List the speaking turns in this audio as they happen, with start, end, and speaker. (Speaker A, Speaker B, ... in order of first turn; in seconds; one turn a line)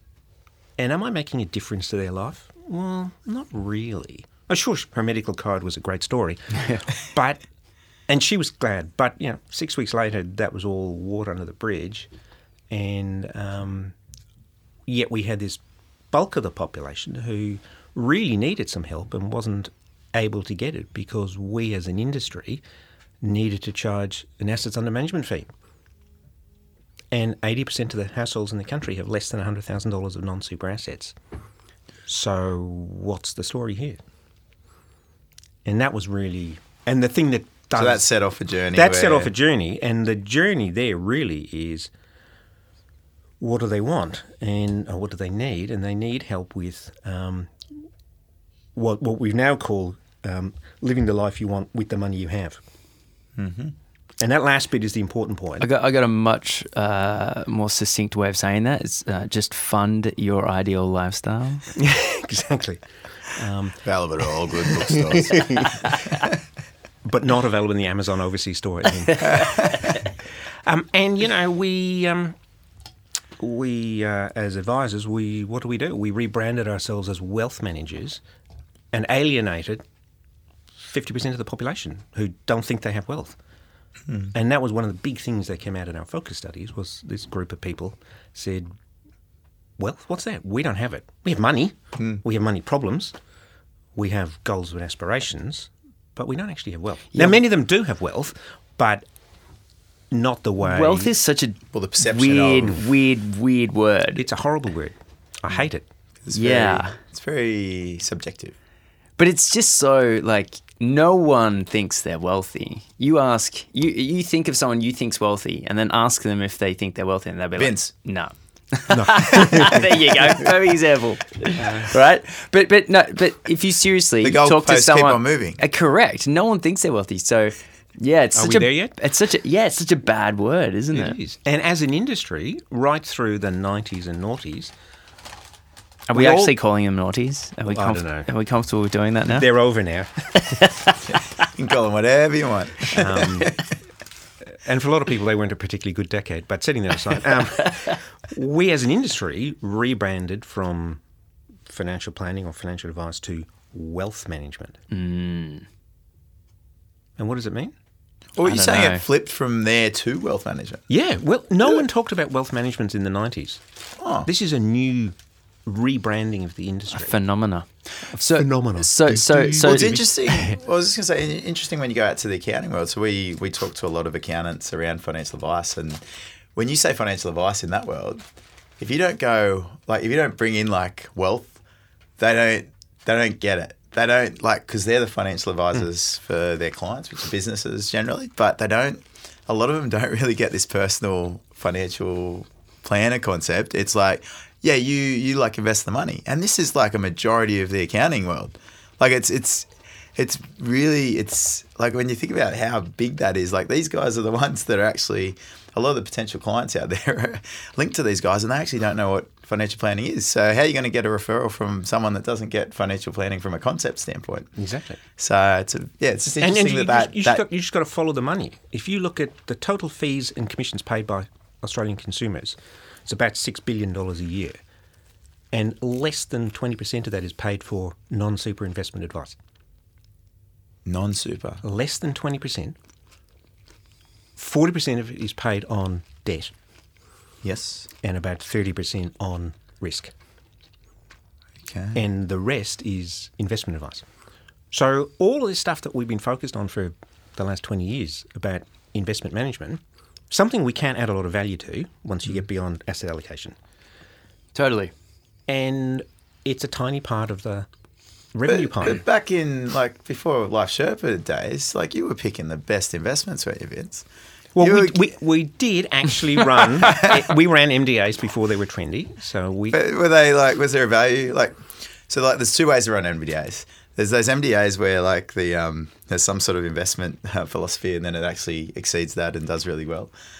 Speaker A: 0.8-7.4
Speaker A: 8.1-12.1
Speaker A: 12.7-13.9
Speaker A: 14.9-22.6
Speaker A: 23.2-25.5
Speaker A: 27.1-31.1
Speaker A: 32.1-34.0
Speaker A: 35.6-38.0
Speaker B: 37.7-39.3
Speaker A: 38.7-41.9
Speaker A: 43.4-47.5
Speaker A: 48.8-52.6
Speaker B: 53.4-53.7
Speaker A: 54.2-55.7
Speaker C: 55.6-61.6
Speaker A: 61.8-63.8
Speaker B: 63.8-66.2
Speaker A: 64.6-65.9
Speaker A: 67.0-69.8
Speaker B: 69.2-69.8
Speaker A: 70.6-72.4
Speaker A: 73.4-78.2
Speaker A: 78.9-79.8
Speaker A: 80.8-83.4
Speaker A: 84.3-88.7
Speaker A: 89.8-93.1
Speaker A: 93.9-99.0
Speaker A: 100.1-101.1
Speaker C: 100.6-104.2
Speaker B: 101.7-102.8
Speaker A: 104.1-105.9
Speaker B: 106.2-108.6
Speaker C: 106.3-107.0
Speaker C: 109.2-131.2
Speaker B: 117.6-117.9
Speaker A: 118.9-119.9
Speaker A: 121.6-121.9
Speaker B: 124.2-125.6
Speaker A: 128.3-128.9
Speaker A: 130.9-134.7
Speaker C: 136.1-139.5
Speaker A: 136.1-136.6
Speaker A: 137.7-138.3
Speaker A: 139.3-140.6
Speaker C: 140.4-140.9
Speaker B: 141.1-143.6
Speaker A: 142.9-143.6
Speaker A: 144.5-151.0
Speaker A: 151.7-154.8
Speaker C: 154.9-155.7
Speaker A: 157.2-157.7
Speaker B: 158.4-160.8
Speaker C: 158.4-159.0
Speaker A: 160.9-163.6
Speaker B: 164.0-164.3
Speaker A: 164.2-167.1
Speaker C: 166.9-170.0
Speaker A: 168.1-170.6
Speaker B: 169.6-176.0
Speaker B: 176.6-178.2
Speaker B: 178.8-181.6
Speaker B: 182.2-214.5
Speaker A: 214.6-215.0
Speaker B: 215.2-217.4
Speaker A: 216.4-224.6
Speaker A: 225.5-229.4
Speaker B: 230.8-231.6
Speaker A: 231.6-232.8
Speaker A: 234.4-236.5
Speaker B: 237.4-237.9
Speaker A: 238.0-240.1
Speaker B: 241.6-242.0
Speaker A: 241.9-244.1
Speaker A: 244.7-253.6
Speaker C: 254.6-254.9
Speaker A: 255.5-257.7
Speaker A: 258.3-259.0
Speaker B: 258.5-264.0
Speaker A: 264.6-269.8
Speaker B: 264.6-265.0
Speaker B: 269.7-280.1